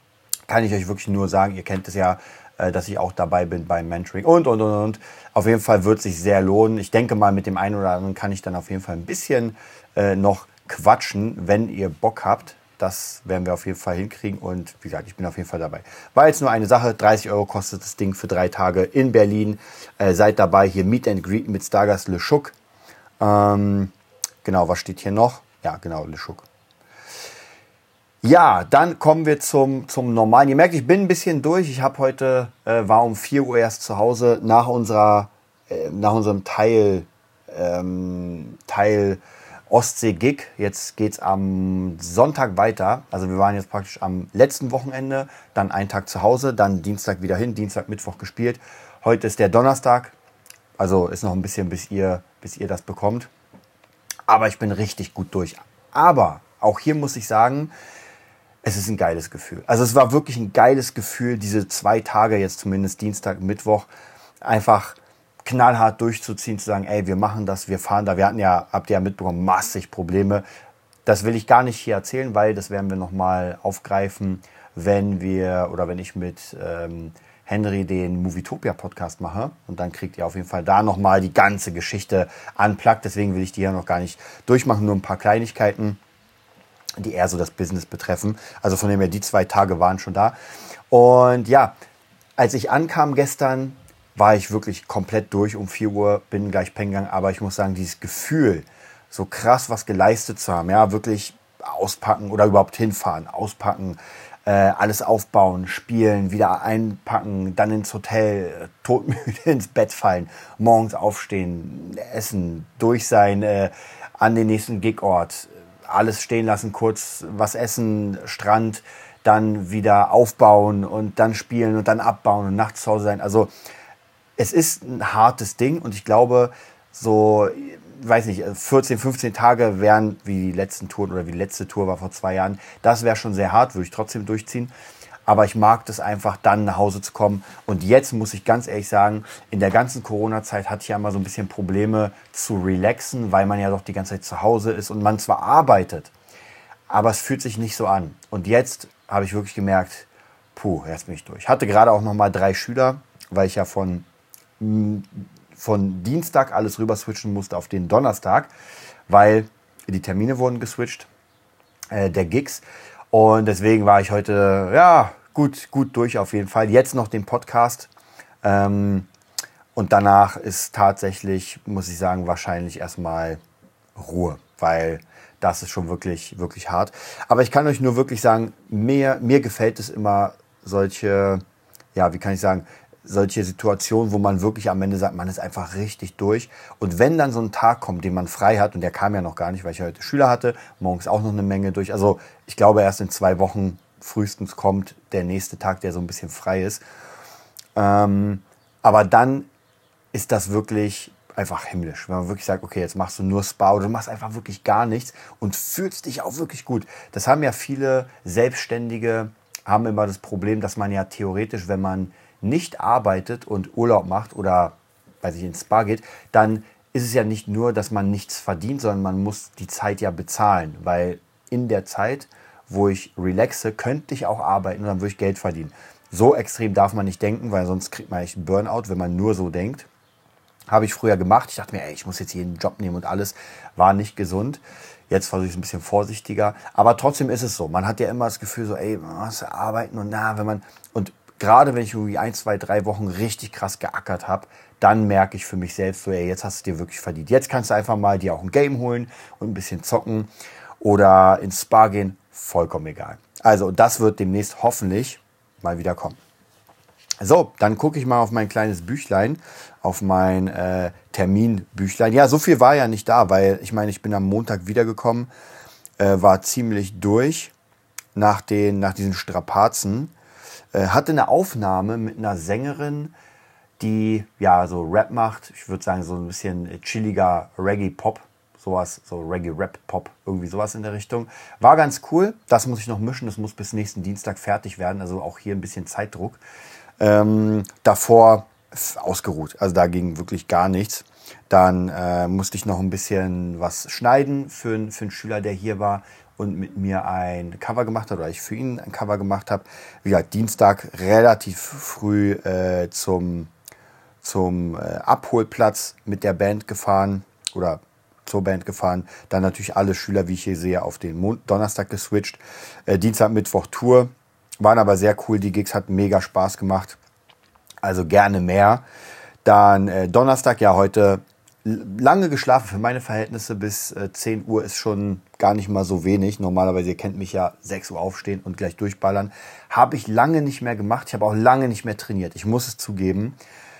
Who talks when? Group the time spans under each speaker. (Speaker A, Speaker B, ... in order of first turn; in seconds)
Speaker A: 0.5-22.5, 23.2-23.9, 24.4-26.5, 28.2-50.1, 50.8-53.3, 54.3-57.7, 58.6-63.9, 64.4-70.4, 71.0-86.0, 87.0-90.3, 90.9-91.7, 92.4-123.5, 124.4-134.7, 135.2-146.1, 146.9-154.1, 154.6-158.5, 159.1-161.1, 161.9-167.9, 168.4-169.1, 169.7-173.4, 173.9-181.4, 181.9-196.8, 197.7-199.5, 200.1-229.9, 230.7-256.2, 257.2-265.3, 266.0-267.5, 268.1-270.1, 270.7-273.1, 273.8-286.4, 287.0-303.5, 304.2-317.0, 317.8-318.8, 319.4-333.4